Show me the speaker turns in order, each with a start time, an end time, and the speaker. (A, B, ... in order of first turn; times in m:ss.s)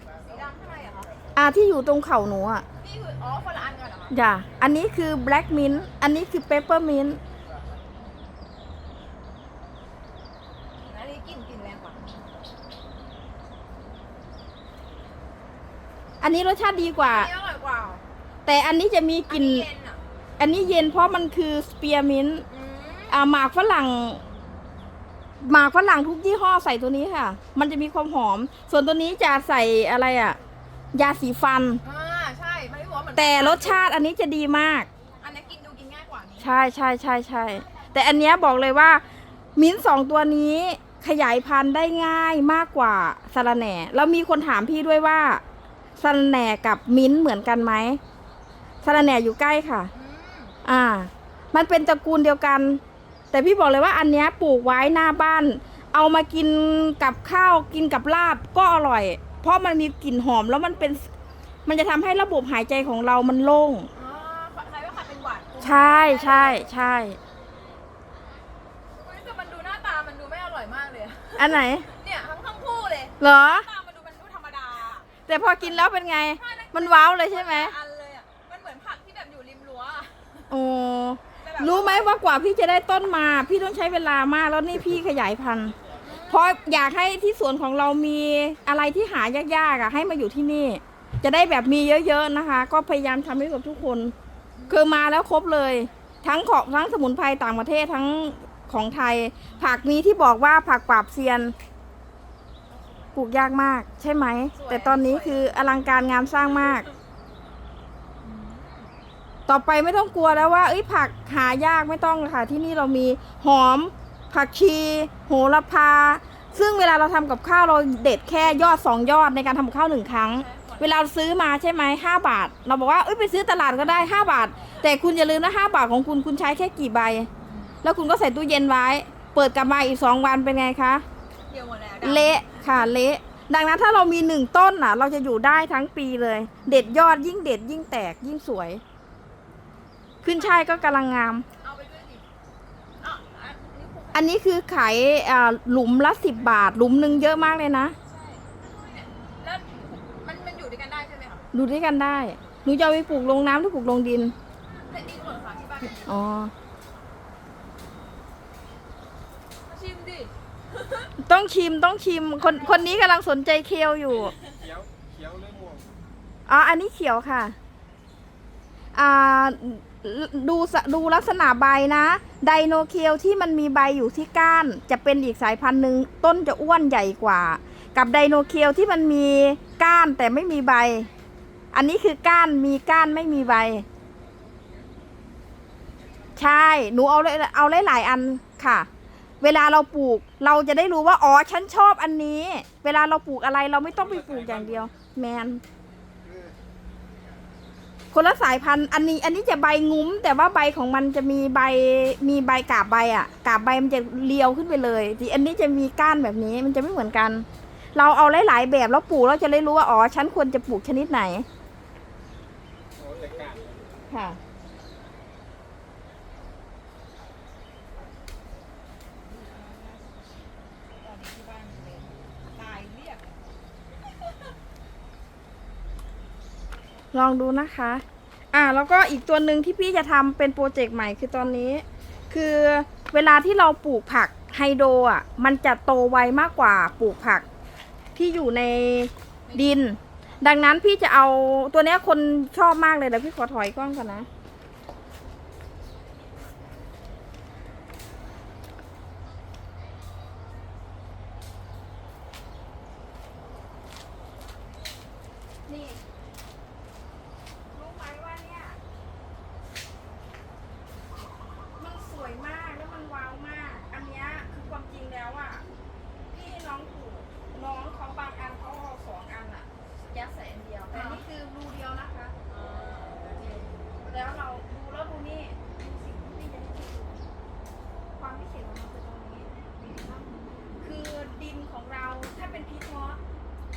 0:00.1-0:01.1 A
0:01.3-0:02.6 B
0:02.8-0:04.1 A
0:04.1-0:07.2 B
0:10.8-0:12.2 A
0:16.2-0:17.3 B
0:17.0-0:18.0 A
0:18.5-0:19.7 B
0:19.3-0:20.0 A
0:20.4-0:22.5 B
0:22.5-0:23.2 A
0:23.1-0:24.2 B
0:25.4-0:30.4 B
0:30.9-0:31.8 B
0:31.8-0:33.8 A
0:33.2-0:34.9 B
0:35.2-0:36.5 A
0:36.4-0:39.0 B
0:39.6-0:45.4 B
0:46.0-0:48.0 B
0:48.8-0:49.9 B
0:49.9-0:50.5 A
0:50.6-0:52.8 B
0:53.3-1:01.1 B
1:01.7-1:03.9 B
1:03.9-1:06.6 A
1:05.6-1:07.2 B
1:08.9-1:20.5 A
1:11.4-1:11.9 B
1:13.2-1:13.7 B
1:15.3-1:17.7 B
1:20.5-1:25.8 B
1:21.4-1:22.1 A
1:26.0-1:26.5 A
1:26.3-1:34.1 B
1:34.6-1:34.9 A
1:34.7-1:41.5 B
1:39.5-1:39.8 A
1:42.7-1:43.2 A
1:43.1-1:46.8 B
1:44.5-1:45.5 A
1:48.2-1:48.9 A
1:49.5-2:07.3 B
2:00.3-2:01.0 A
2:07.4-2:07.8 A
2:07.8-2:11.0 B
2:11.5-2:12.6 A
2:12.0-2:18.8 B
2:20.2-2:21.5 B
2:20.3-2:21.0 A
2:21.6-2:22.3 A
2:23.0-2:24.3 A
2:24.1-2:28.0 B
2:28.1-2:31.4 A
2:31.5-2:34.3 B
2:34.7-2:36.2 A
2:36.0-2:36.5 B
2:39.7-2:41.1 A
2:41.2-2:44.3 B
2:42.4-2:43.0 A
2:44.6-2:45.9 C
2:46.5-2:47.6 B
2:48.9-3:01.1 B
3:01.7-3:03.8 B
3:06.4-3:08.9 B
3:09.4-3:15.6 B
3:18.1-3:31.5 B
3:33.0-3:33.8 C
3:34.1-3:34.4 B
3:39.2-3:43.5 A
3:47.1-3:57.4 B
3:58.2-4:04.3 B
3:59.5-3:59.8 A
4:15.7-4:16.0 B
4:17.7-4:18.8 B
4:21.8-4:25.6 B
4:26.3-4:32.3 B
4:30.9-4:31.2 A
4:32.5-4:33.3 A
4:33.4-4:37.3 B
4:38.1-4:40.2 B
4:39.8-4:40.5 A
4:40.8-4:43.2 B